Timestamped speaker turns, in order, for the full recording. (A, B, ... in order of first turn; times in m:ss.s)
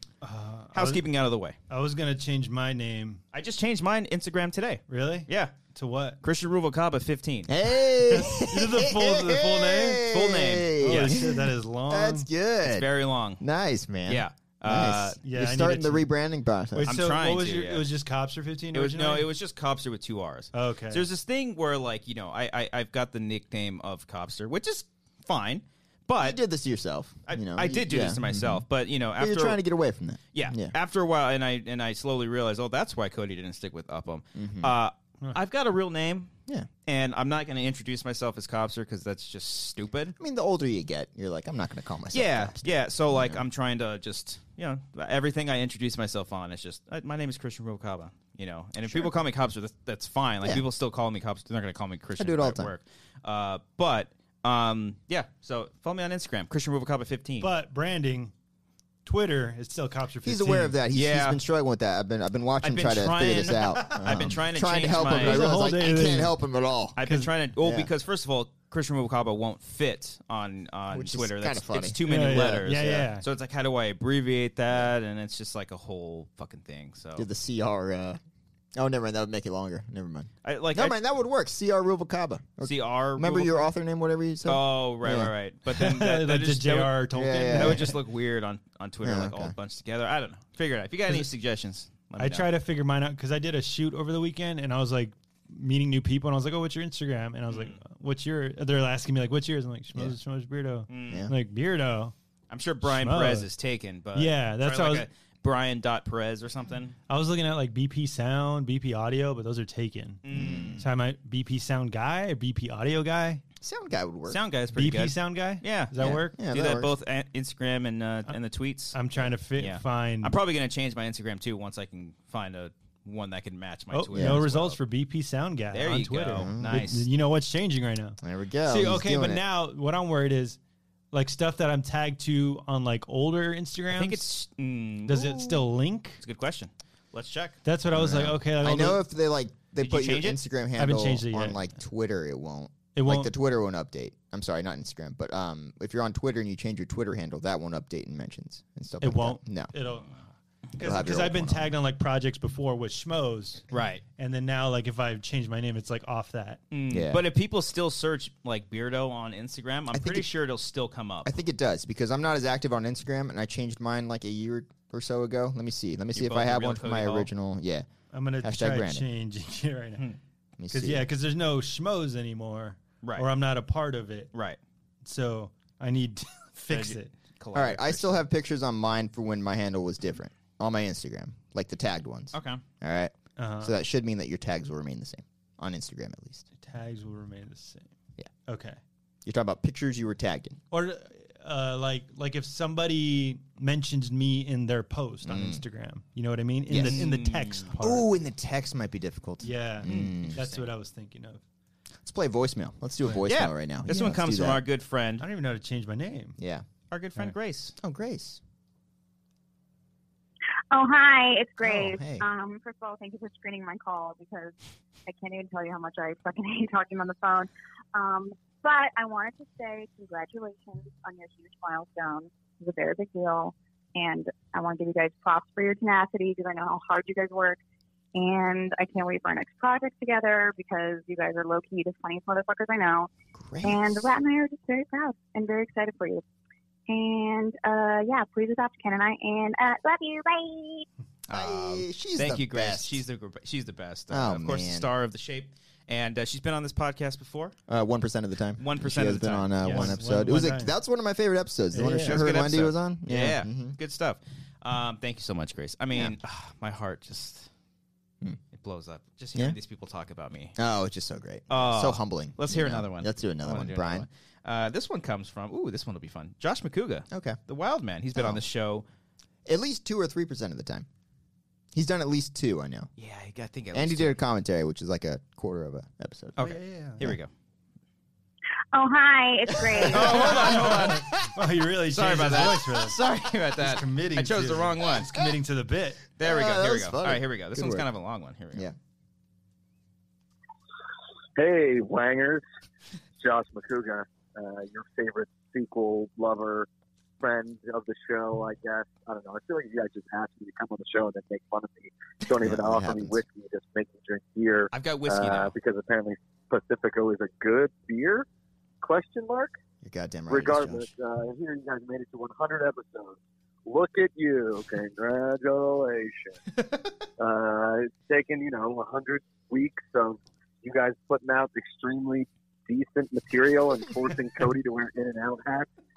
0:00.2-0:01.0 A
0:00.7-0:01.6 B
0:01.7-0:03.2 A
0:03.3-0:05.6 B
0:04.9-0:06.2 A
0:06.2-0:07.5 B
0:07.5-0:12.9 C
0:08.1-0:10.1 A
0:10.1-0:11.2 B
0:10.8-0:12.3 A
0:12.6-0:13.4 B
0:13.4-0:16.9 C
0:14.1-0:15.2 B
0:15.2-0:16.1 A
0:16.7-0:19.3 A
0:16.9-0:17.8 B
0:18.7-0:26.4 B
0:20.5-0:21.1 A
0:26.2-0:28.6 C
0:27.3-0:29.6 B
0:29.2-0:30.7 C
0:30.3-0:36.3 B
0:34.4-0:34.7 C
0:36.8-0:40.2 B
0:40.2-0:43.4 C
0:42.1-0:57.5 B
0:48.9-0:49.1 C
0:52.2-0:52.7 C
0:57.4-0:58.3 A
0:59.0-1:00.8 A
1:00.2-1:07.0 C
1:00.9-1:01.4 B
1:02.6-1:05.4 B
1:03.6-1:04.3 A
1:05.0-1:06.4 A
1:07.0-1:17.3 B
1:07.0-1:07.3 A
1:07.6-1:07.9 C
1:10.9-1:13.1 C
1:12.1-1:13.2 A
1:17.2-1:18.2 C
1:18.8-1:25.3 C
1:20.4-1:21.0 B
1:22.6-1:23.7 B
1:24.4-1:32.5 B
1:25.7-1:28.0 A
1:27.1-1:27.9 C
1:29.0-1:29.5 C
1:32.2-1:42.1 A
1:37.5-1:37.8 B
1:40.9-1:41.2 B
1:42.5-1:47.0 B
1:42.8-1:43.5 A
1:44.2-1:45.1 A
1:47.1-1:50.2 A
1:50.2-1:50.8 B
1:50.3-1:50.9 C
1:50.8-1:53.4 A
1:53.6-1:54.4 C
1:54.3-1:59.0 B
1:54.8-1:56.4 A
1:56.0-1:56.9 C
1:58.9-2:00.4 A
1:59.6-2:04.8 B
2:03.9-2:10.6 A
2:04.1-2:04.4 C
2:05.7-2:07.1 B
2:06.3-2:06.9 C
2:08.2-2:09.4 C
2:11.1-2:14.3 A
2:13.9-2:15.6 B
2:15.1-2:16.2 A
2:16.2-2:17.6 B
2:17.6-2:19.0 A
2:17.9-2:29.7 C
2:19.8-2:20.4 B
2:20.8-2:21.6 A
2:23.0-2:23.3 A
2:29.0-2:30.2 A
2:30.8-2:33.7 A
2:30.8-2:31.7 C
2:33.7-2:34.0 B
2:34.2-2:36.6 A
2:36.7-2:41.3 B
2:36.9-2:37.2 C
2:39.9-2:40.3 C
2:41.2-2:47.9 C
2:46.1-2:47.3 B
2:48.1-2:50.0 A
2:48.4-2:49.0 C
2:50.6-2:51.1 C
2:50.7-2:54.3 A
2:53.0-2:53.3 B
2:54.3-2:54.6 B
2:55.0-2:57.1 A
2:56.7-2:58.2 B
2:57.5-3:06.4 C
3:02.3-3:02.6 B
3:03.4-3:03.7 A
3:06.6-3:07.9 A
3:08.5-3:08.8 A
3:09.2-3:10.6 C
3:10.7-3:18.1 A
3:15.2-3:15.6 C
3:16.7-3:17.1 C
3:16.8-3:17.7 B
3:17.8-3:20.4 C
3:19.4-3:21.4 A
3:19.8-3:20.7 B
3:22.0-3:24.6 C
3:23.3-3:25.2 B
3:25.2-3:26.4 A
3:26.4-3:26.6 C
3:26.9-3:27.7 B
3:27.8-3:28.4 C
3:30.7-3:47.6 D
3:31.6-3:32.2 C
3:48.2-3:53.1 D
3:53.3-3:54.1 C
3:53.6-3:56.2 D
3:56.9-4:00.9 D
4:01.3-4:07.6 B
4:01.3-4:03.0 C
4:04.1-4:04.9 C
4:07.7-4:13.8 C
4:08.6-4:10.0 B
4:09.6-4:10.7 A
4:11.7-4:12.2 A
4:12.0-4:17.5 B
4:18.5-4:20.6 B
4:20.6-4:24.1 C
4:21.5-4:28.9 B
4:27.1-4:27.4 C
4:28.2-4:28.4 C
4:29.5-4:30.9 C
4:31.7-4:32.9 C
4:33.0-4:34.2 B
4:33.7-4:36.4 C
4:36.4-4:37.3 B
4:36.4-4:37.0 A
4:38.7-4:40.5 D
4:39.5-4:41.0 C
4:39.9-4:41.3 B
4:40.0-4:43.0 A
4:41.9-4:45.1 B
4:43.6-4:46.0 A
4:46.2-4:48.7 B
4:46.2-4:47.9 C
4:51.4-4:52.4 E
4:53.2-4:56.7 E
4:57.2-5:08.3 E
5:02.4-5:03.2 C
5:04.7-5:05.6 B
5:08.8-5:09.5 E
5:09.8-5:10.9 C
5:10.3-5:16.4 E
5:17.2-5:25.7 E